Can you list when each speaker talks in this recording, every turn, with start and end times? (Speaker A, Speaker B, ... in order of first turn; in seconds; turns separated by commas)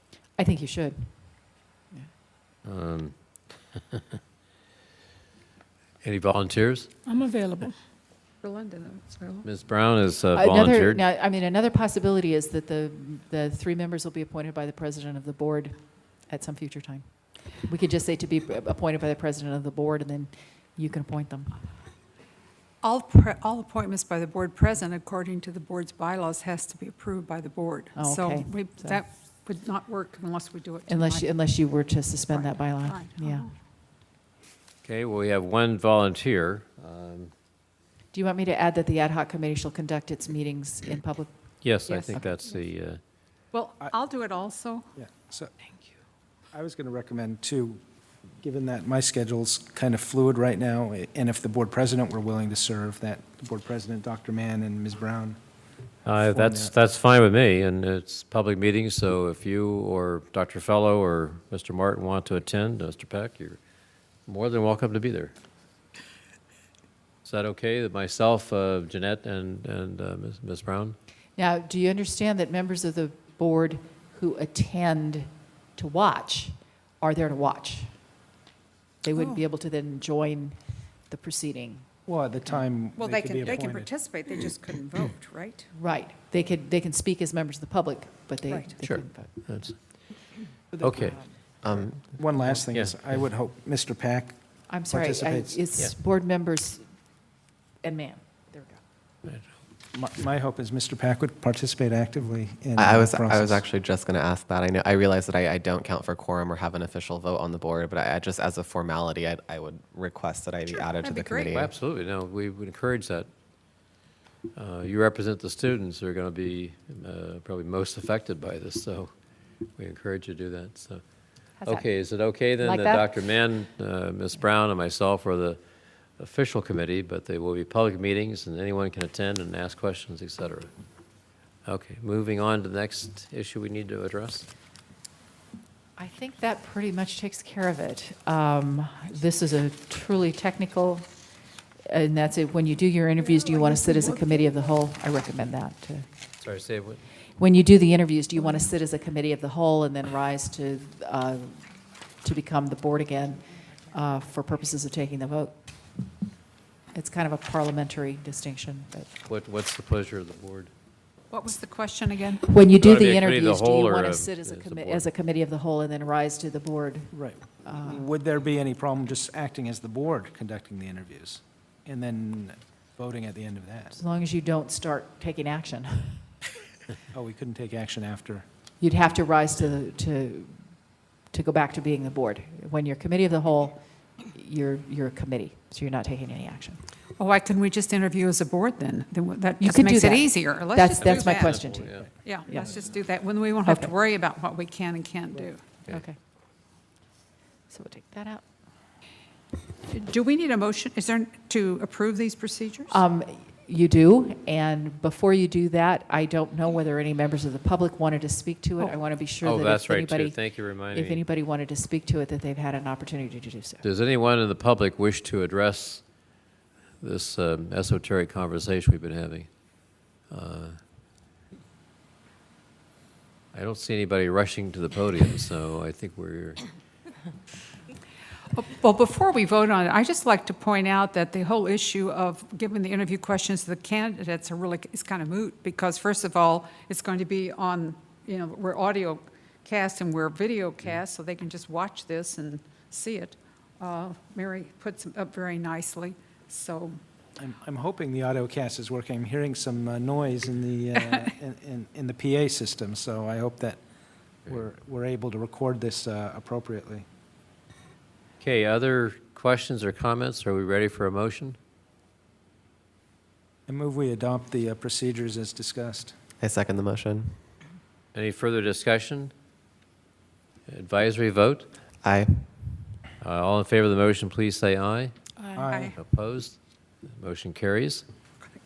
Speaker A: 0.4-2.1, Speaker B: 2.6-3.2, Speaker B: 3.7-4.0, Speaker B: 6.0-6.9, Speaker C: 8.4-9.5, Speaker B: 9.4-11.0, Speaker A: 10.3-15.8, Speaker A: 16.3-17.1, Speaker A: 17.6-21.6, Speaker C: 22.8-31.3, Speaker A: 28.0-29.0, Speaker A: 30.9-33.5, Speaker C: 32.3-33.5, Speaker B: 34.8-37.3, Speaker A: 38.1-41.6, Speaker B: 41.6-43.0, Speaker C: 41.9-42.3, Speaker C: 43.5-44.9, Speaker D: 45.0-45.5, Speaker D: 46.5-47.8, Speaker D: 48.4-55.4, Speaker B: 56.0-63.6, Speaker D: 56.3-56.7, Speaker B: 64.3-65.3, Speaker B: 67.2-71.0, Speaker A: 71.4-77.9, Speaker A: 79.0-81.9, Speaker C: 79.1-79.4, Speaker D: 82.1-83.9, Speaker C: 83.0-85.7, Speaker A: 85.8-89.5, Speaker B: 88.8-90.1, Speaker B: 90.8-91.2, Speaker A: 91.0-91.4, Speaker E: 91.6-91.9, Speaker D: 92.0-95.7, Speaker B: 92.7-93.0, Speaker A: 94.7-96.9, Speaker A: 97.8-98.8, Speaker D: 99.9-103.6, Speaker E: 102.8-111.7, Speaker C: 110.7-111.6, Speaker B: 111.5-113.3, Speaker B: 114.5-119.1, Speaker B: 119.8-121.0, Speaker A: 121.6-121.9, Speaker B: 121.6-125.6, Speaker A: 122.5-123.1, Speaker B: 126.2-130.7, Speaker B: 131.7-134.5, Speaker A: 136.0-141.1, Speaker A: 141.9-146.1, Speaker C: 143.3-144.3, Speaker B: 146.4-147.0, Speaker A: 147.4-151.6, Speaker C: 148.4-148.6, Speaker A: 152.2-155.6, Speaker A: 156.9-159.1, Speaker B: 159.3-160.7, Speaker C: 161.3-162.4, Speaker A: 162.4-168.1, Speaker B: 162.7-165.1, Speaker D: 167.1-173.9, Speaker A: 173.9-176.3, Speaker D: 177.1-178.5, Speaker A: 178.8-180.6, Speaker A: 181.3-186.8, Speaker C: 187.2-191.6, Speaker A: 189.6-192.8, Speaker B: 191.0-192.1, Speaker C: 192.2-195.6, Speaker A: 193.7-193.9, Speaker A: 195.9-196.2, Speaker A: 197.7-198.4, Speaker C: 199.9-203.0, Speaker A: 202.9-213.8, Speaker B: 209.4-211.2, Speaker B: 213.8-216.1, Speaker B: 217.0-219.7, Speaker B: 220.3-220.8, Speaker B: 223.5-226.6, Speaker C: 228.5-247.0, Speaker D: 247.4-253.8, Speaker C: 251.0-251.3, Speaker D: 254.4-257.1, Speaker B: 258.4-261.6, Speaker D: 263.7-266.2, Speaker E: 266.4-267.4, Speaker B: 268.1-269.3, Speaker B: 270.7-271.7, Speaker E: 272.0-272.5, Speaker B: 273.2-275.1, Speaker D: 275.6-275.9, Speaker C: 275.7-276.0, Speaker B: 275.9-276.6, Speaker B: 277.1-278.1